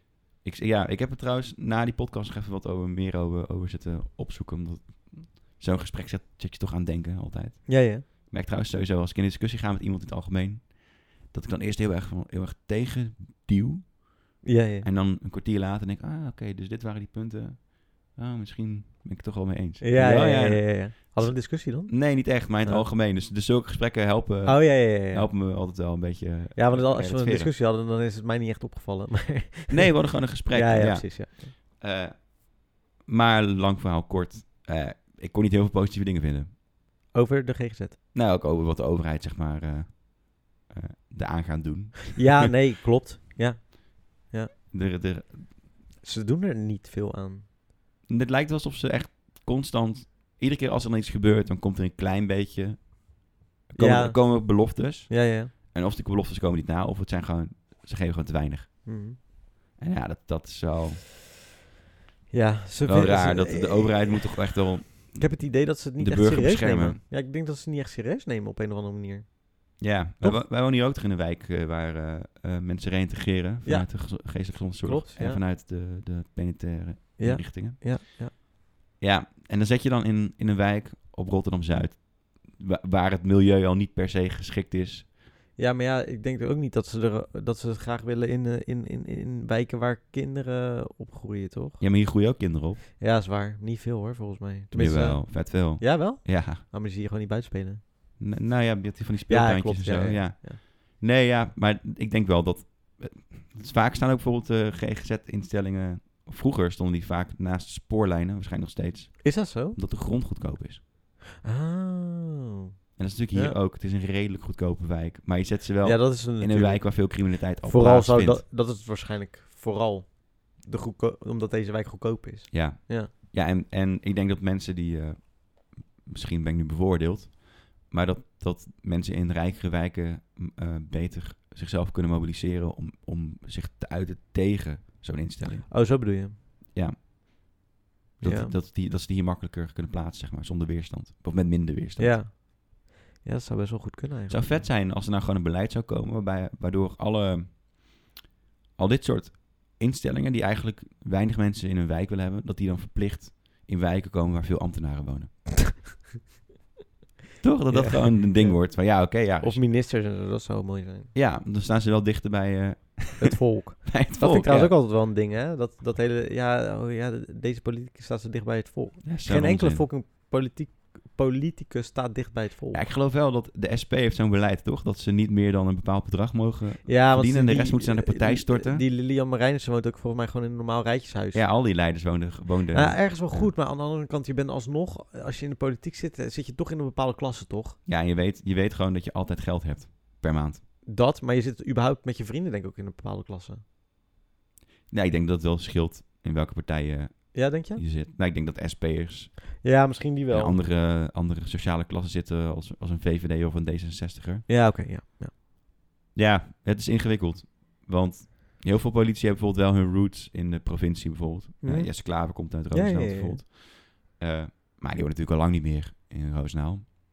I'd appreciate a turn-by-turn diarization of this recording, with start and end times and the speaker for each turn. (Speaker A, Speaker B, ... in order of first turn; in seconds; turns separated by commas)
Speaker A: 0.4-27.5, Speaker B: 7.7-8.1, Speaker B: 14.4-14.9, Speaker B: 19.8-22.9, Speaker B: 24.4-25.3, Speaker B: 26.6-31.5, Speaker A: 29.7-36.5, Speaker B: 37.1-38.0, Speaker A: 38.1-42.5, Speaker B: 42.2-44.5, Speaker A: 44.7-45.6, Speaker B: 46.0-47.5, Speaker A: 48.1-59.0, Speaker B: 53.8-55.5, Speaker B: 58.9-59.2, Speaker A: 59.8-61.0, Speaker B: 62.3-70.4, Speaker A: 62.8-65.4, Speaker A: 66.0-67.0, Speaker A: 69.8-78.0, Speaker B: 73.6-75.4, Speaker B: 77.2-78.3, Speaker A: 79.0-85.1, Speaker B: 85.6-91.8, Speaker A: 91.8-92.8, Speaker B: 93.0-98.2, Speaker A: 94.7-96.6, Speaker A: 98.2-110.8, Speaker B: 99.3-100.6, Speaker B: 109.2-109.8, Speaker B: 111.4-112.6, Speaker A: 113.0-118.4, Speaker B: 115.8-123.1, Speaker A: 122.5-135.8, Speaker B: 135.5-136.4, Speaker B: 138.2-138.6, Speaker A: 138.2-142.2, Speaker B: 142.0-144.7, Speaker A: 144.3-148.0, Speaker A: 148.8-155.8, Speaker A: 157.4-159.6, Speaker B: 157.7-161.1, Speaker A: 161.1-164.8, Speaker B: 163.2-172.8, Speaker A: 169.0-169.9, Speaker A: 172.7-178.8, Speaker B: 176.8-181.5, Speaker A: 181.3-183.5, Speaker B: 182.7-187.8, Speaker A: 187.9-190.6, Speaker B: 190.9-193.6, Speaker A: 194.9-199.6, Speaker B: 197.3-197.8, Speaker B: 199.6-200.6, Speaker A: 200.3-204.5, Speaker B: 204.5-205.3, Speaker A: 206.2-216.9, Speaker B: 211.6-213.4